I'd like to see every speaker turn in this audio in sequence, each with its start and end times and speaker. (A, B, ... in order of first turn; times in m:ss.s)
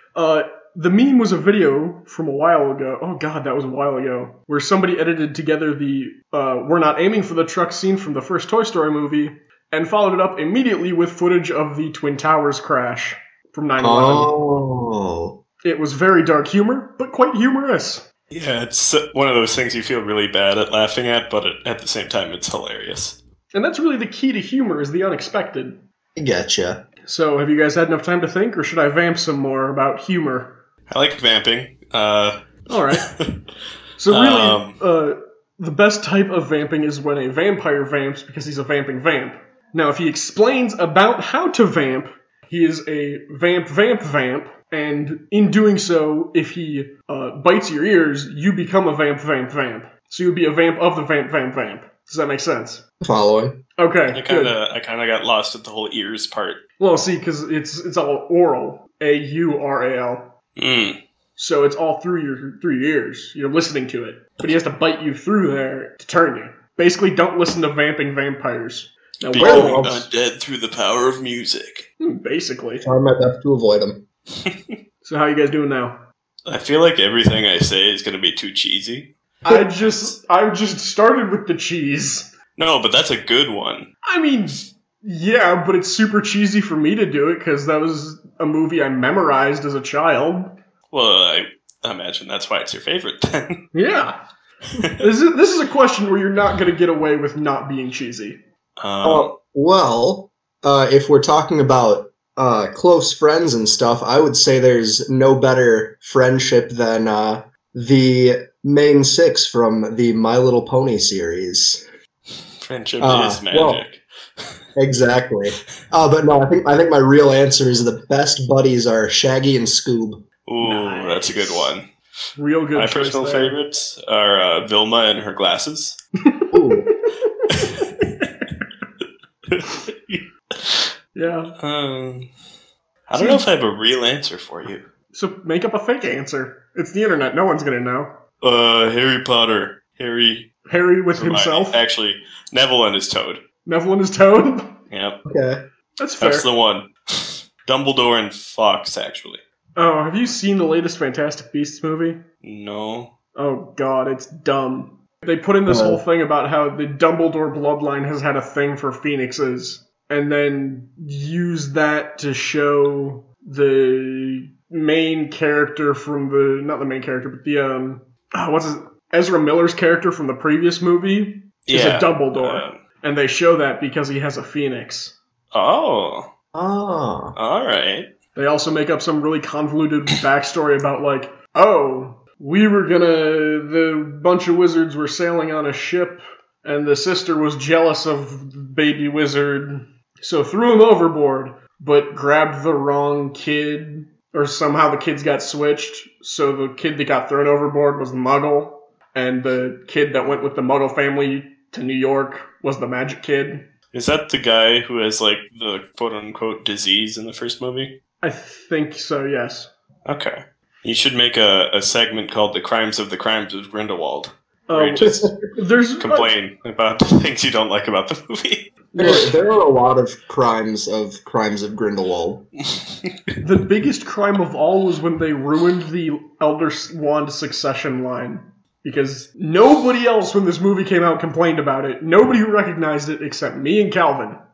0:00.1-0:14.3 A
0:13.8-0:15.3 B
0:15.6-0:18.0 A
0:18.3-0:23.2 C
0:23.5-0:25.8 A
0:26.2-0:26.8 B
0:27.0-0:30.6 A
0:30.9-0:32.4 C
0:32.7-0:33.0 A
0:32.9-0:33.3 C
0:34.0-0:52.8 A
0:34.1-0:34.8 C
0:53.0-0:53.6 B
0:53.8-0:54.5 A
0:54.1-0:56.6 C
0:56.8-1:00.3 A
1:00.6-1:01.0 C
1:01.4-1:09.9 A
1:09.3-1:11.8 C
1:09.4-1:10.0 B
1:12.0-1:12.8 A
1:12.8-1:14.0 B
1:14.4-1:14.7 C
1:15.0-1:16.0 A
1:16.4-1:19.1 C
1:19.4-1:22.3 A
1:22.6-1:23.9 C
1:24.0-1:30.5 A
1:30.9-1:33.6 C
1:33.7-1:34.2 A
1:34.7-1:38.4 A
1:38.8-1:39.3 C
1:39.0-1:51.8 B
1:52.6-1:54.6 C
1:53.0-1:53.8 B
1:54.8-2:00.2 B
2:00.5-2:01.8 C
2:00.6-2:01.7 A
2:02.4-2:03.5 A
2:02.8-2:06.0 C
2:06.2-2:08.5 A
2:06.5-2:06.9 B
2:07.5-2:07.8 C
2:09.5-2:10.9 C
2:11.1-2:11.5 A
2:11.6-2:12.3 C
2:13.1-2:14.8 C
2:13.1-2:13.4 A
2:15.1-2:18.1 A
2:18.4-2:20.5 C
2:20.7-2:21.8 A
2:21.1-2:23.4 C
2:23.6-2:24.8 A
2:24.9-2:25.2 C
2:25.2-2:25.6 B
2:26.0-2:26.4 A
2:26.2-2:29.4 C
2:29.8-2:32.2 A
2:32.4-2:33.1 C
2:33.4-2:55.1 A
2:35.7-2:36.0 B
2:51.7-2:52.8 C
2:55.5-2:56.2 C
2:56.5-2:57.3 B
2:57.4-2:58.1 C
2:58.3-3:23.6 A
3:23.9-3:27.9 C
3:28.2-3:29.7 A
3:30.0-3:35.1 C
3:34.7-3:36.3 A
3:35.0-3:35.3 B
3:36.0-3:38.7 C
3:38.9-3:39.3 A
3:39.0-3:42.4 B
3:43.4-3:54.4 A